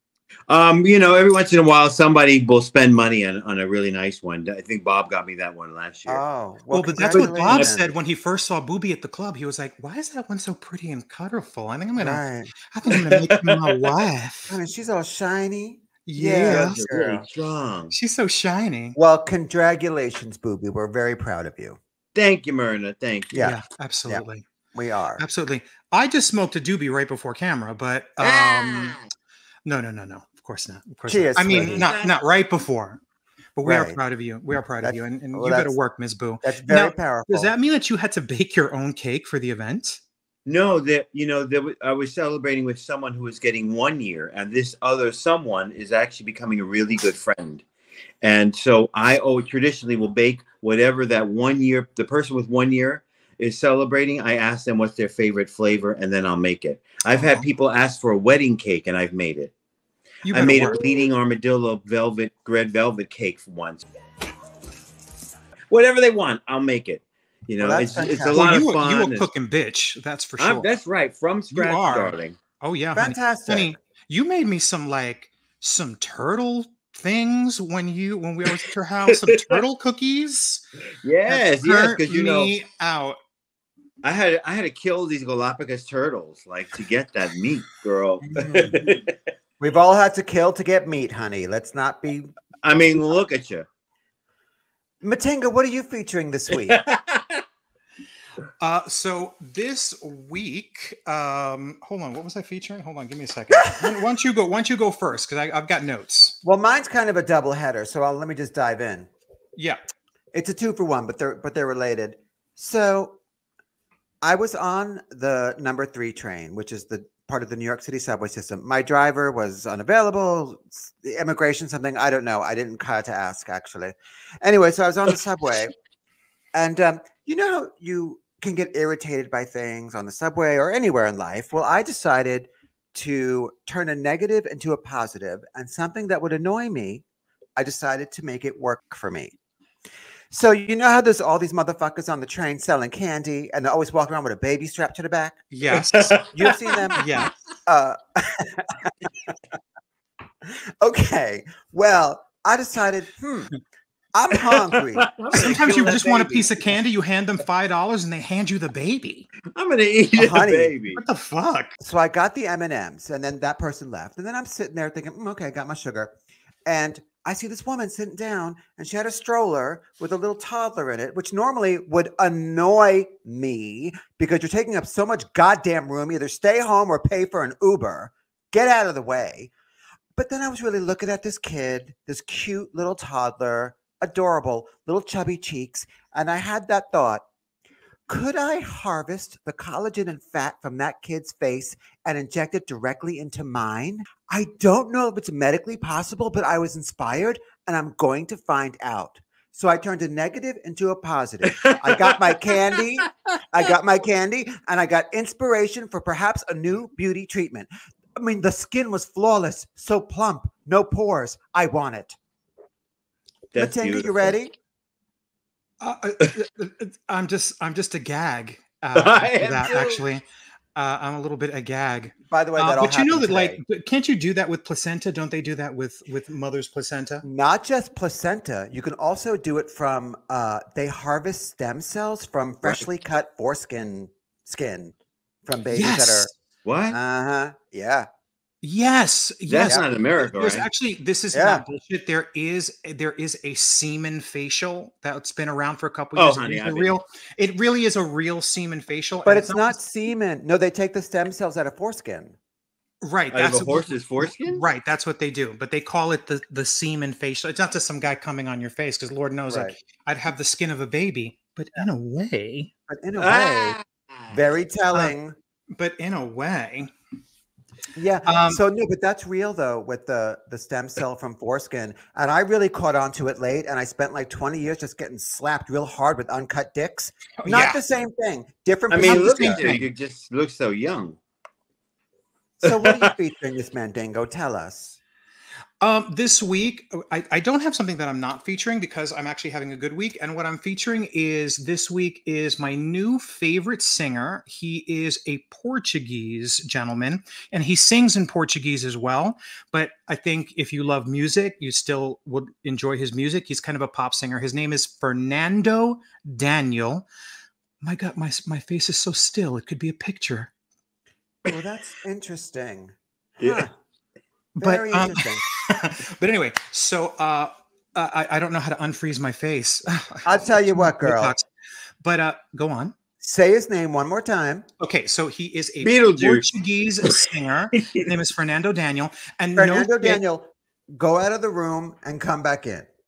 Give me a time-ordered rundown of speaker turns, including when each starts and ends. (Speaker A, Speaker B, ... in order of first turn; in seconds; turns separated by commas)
Speaker A: 0.5-6.2, Speaker B: 6.0-7.9, Speaker C: 6.7-14.6, Speaker A: 7.1-7.8, Speaker B: 12.0-12.5, Speaker A: 12.9-13.9, Speaker B: 14.5-17.2, Speaker C: 16.1-16.8, Speaker A: 16.4-17.9, Speaker C: 17.9-19.0, Speaker B: 18.9-21.8, Speaker A: 22.1-23.3, Speaker B: 23.3-24.2, Speaker C: 23.4-24.4, Speaker B: 24.7-25.2, Speaker C: 25.2-29.0, Speaker A: 28.2-29.0, Speaker C: 29.6-33.0, Speaker B: 31.1-31.9, Speaker A: 31.5-32.1, Speaker C: 33.6-40.0, Speaker B: 33.6-34.0, Speaker B: 34.8-35.7, Speaker B: 36.4-37.5, Speaker A: 40.5-47.6, Speaker A: 48.2-59.5, Speaker C: 60.2-60.8, Speaker A: 60.3-63.8, Speaker A: 65.7-69.3, Speaker B: 67.6-68.6, Speaker C: 68.3-70.7, Speaker A: 70.4-72.4, Speaker C: 71.5-80.6, Speaker B: 72.9-73.8, Speaker A: 79.1-79.6, Speaker A: 81.0-82.5, Speaker C: 81.3-83.2, Speaker A: 84.0-89.1, Speaker B: 88.3-88.8, Speaker B: 89.6-92.3, Speaker A: 92.6-93.7, Speaker B: 95.0-96.8, Speaker A: 96.5-97.4, Speaker C: 98.6-106.4, Speaker B: 106.4-109.1, Speaker B: 110.3-113.2, Speaker B: 114.2-125.7, Speaker B: 126.5-137.0, Speaker B: 137.6-139.3, Speaker B: 140.3-145.4, Speaker C: 145.5-146.3, Speaker A: 145.7-147.0, Speaker B: 146.3-147.1, Speaker C: 146.9-147.3, Speaker B: 147.7-148.9, Speaker B: 150.8-153.5, Speaker B: 154.1-156.2, Speaker A: 154.3-156.7, Speaker C: 155.3-159.3, Speaker A: 159.5-161.0, Speaker B: 160.1-160.7, Speaker C: 160.9-161.8, Speaker B: 161.8-166.1, Speaker B: 166.7-179.5, Speaker B: 180.1-187.2, Speaker B: 188.1-212.2, Speaker A: 201.5-202.8, Speaker A: 213.5-214.4, Speaker B: 213.6-214.5, Speaker C: 215.8-220.2, Speaker A: 218.9-220.0, Speaker C: 220.8-227.2, Speaker B: 222.3-223.6, Speaker B: 227.2-234.9, Speaker B: 235.4-236.3, Speaker C: 235.7-236.3, Speaker A: 236.6-237.0, Speaker B: 236.9-238.1, Speaker C: 238.6-249.8, Speaker A: 239.5-240.7, Speaker B: 241.3-241.6, Speaker A: 246.1-247.0, Speaker B: 249.2-252.4, Speaker C: 253.0-262.7, Speaker A: 253.3-254.7, Speaker B: 259.5-259.7, Speaker B: 262.9-263.8, Speaker A: 263.2-263.9, Speaker B: 264.3-265.4, Speaker C: 265.8-266.9, Speaker B: 267.9-279.7, Speaker C: 268.2-268.6, Speaker C: 277.4-277.8, Speaker A: 278.9-281.2, Speaker C: 279.0-279.9, Speaker B: 282.6-285.0, Speaker A: 282.6-283.1, Speaker C: 285.8-307.1, Speaker C: 307.8-310.5, Speaker B: 311.5-313.7, Speaker A: 313.4-313.7, Speaker C: 314.6-321.4, Speaker B: 314.6-315.4, Speaker B: 320.2-321.3, Speaker C: 322.0-322.9, Speaker B: 323.2-324.6, Speaker C: 324.8-330.2, Speaker A: 325.8-326.5, Speaker B: 329.6-332.9